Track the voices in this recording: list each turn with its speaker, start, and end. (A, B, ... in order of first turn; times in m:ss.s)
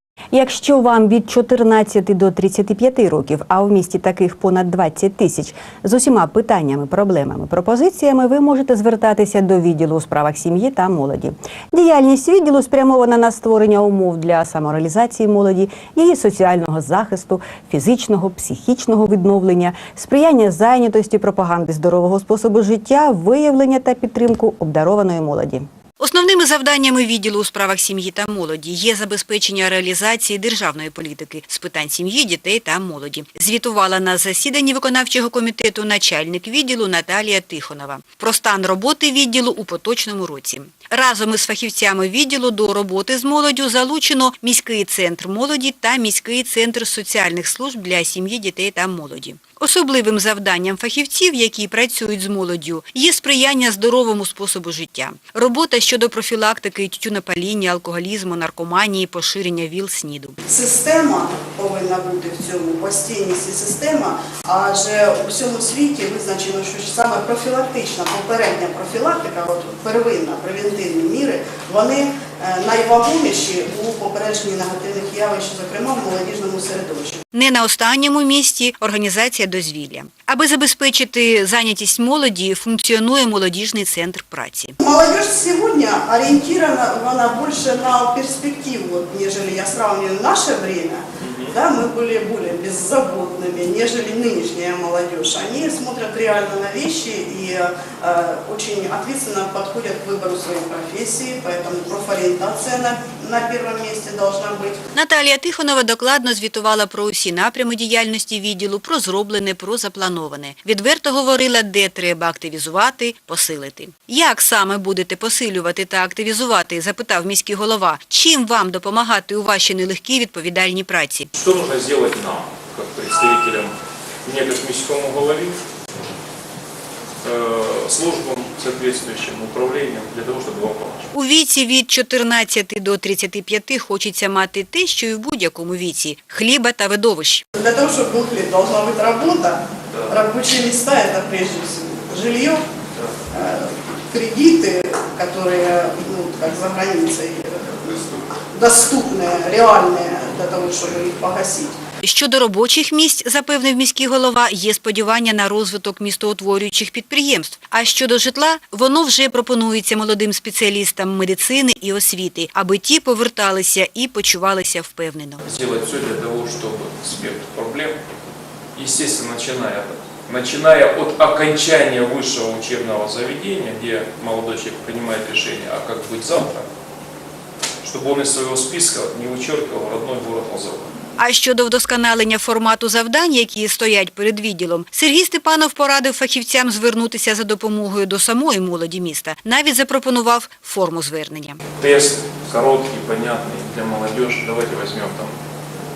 0:00.3-1:00.4 A
1:00.4-1:17.2 B
1:17.3-1:24.8 A
1:24.8-1:44.8 B
1:31.2-1:31.6 C
1:44.9-2:01.3 A
2:01.3-2:03.7 C
2:04.2-2:05.6 C
2:07.2-2:11.1 C
2:11.1-2:17.4 A
2:17.6-2:22.6 B
2:19.9-2:20.2 C
2:23.3-2:31.8 B
2:32.0-2:45.4 A
2:45.4-2:48.0 C
2:48.8-2:56.7 C
2:57.8-3:00.9 C
3:01.2-3:11.6 A
3:11.8-3:15.4 C